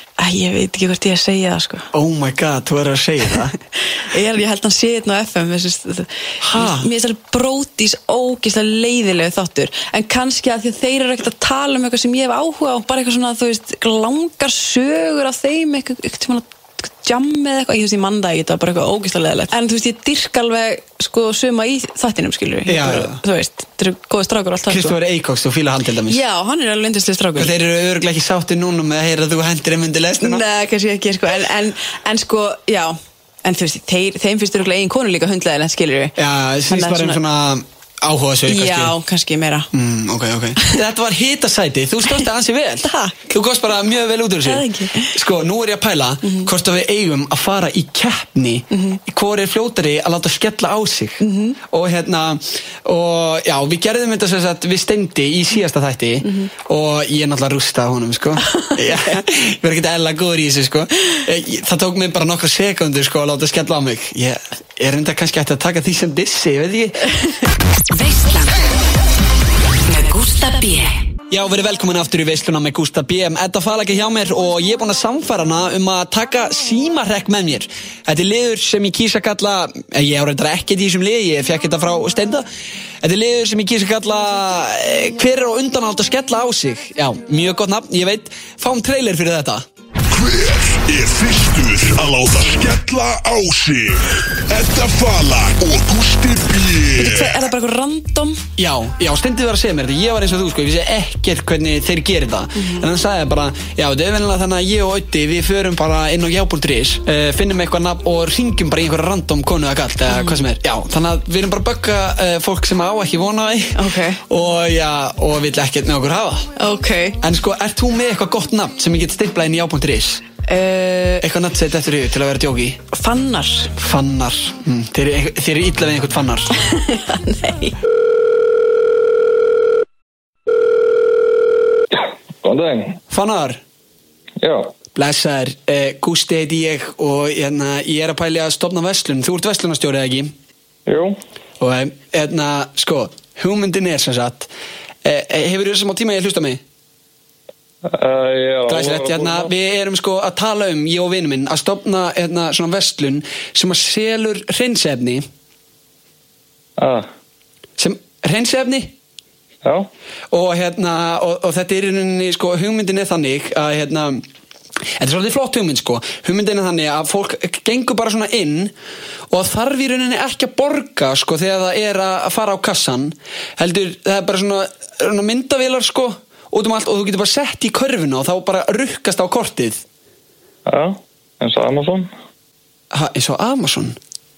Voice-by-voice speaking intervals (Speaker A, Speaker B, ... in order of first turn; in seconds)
Speaker A: 0.2-1.9, 3.9-24.9, 26.1-27.5, 30.2-36.1, 36.7-37.2, 38.5-39.7, 42.8-43.2, 44.4-45.1, 46.2-46.5, 48.7-49.0, 51.2-51.6, 56.2-56.5, 97.0-98.4, 102.6-102.8, 110.1-110.4, 113.8-114.2, 116.6-117.2, 120.5-121.2, 122.9-123.7, 126.6-127.8
Speaker B: 1.9-3.6, 6.4-6.9, 22.7-23.2, 24.7-26.2, 27.4-30.4, 36.2-38.9, 39.7-67.1, 71.3-82.5, 83.0-89.6, 98.6-116.5, 117.2-120.2, 121.2-122.8, 123.8-126.5, 133.1-133.6, 134.9-140.3, 141.6-144.5, 145.0-146.6, 148.7-155.3, 157.8-158.9, 160.3-164.2, 165.0-168.7, 169.3-179.8, 182.9-184.0
Speaker C: 67.9-68.6, 69.9-71.1
Speaker D: 90.1-97.4
Speaker E: 131.9-133.0, 134.4-134.7, 140.9-141.2, 147.8-149.5, 156.8-157.1, 180.7-182.1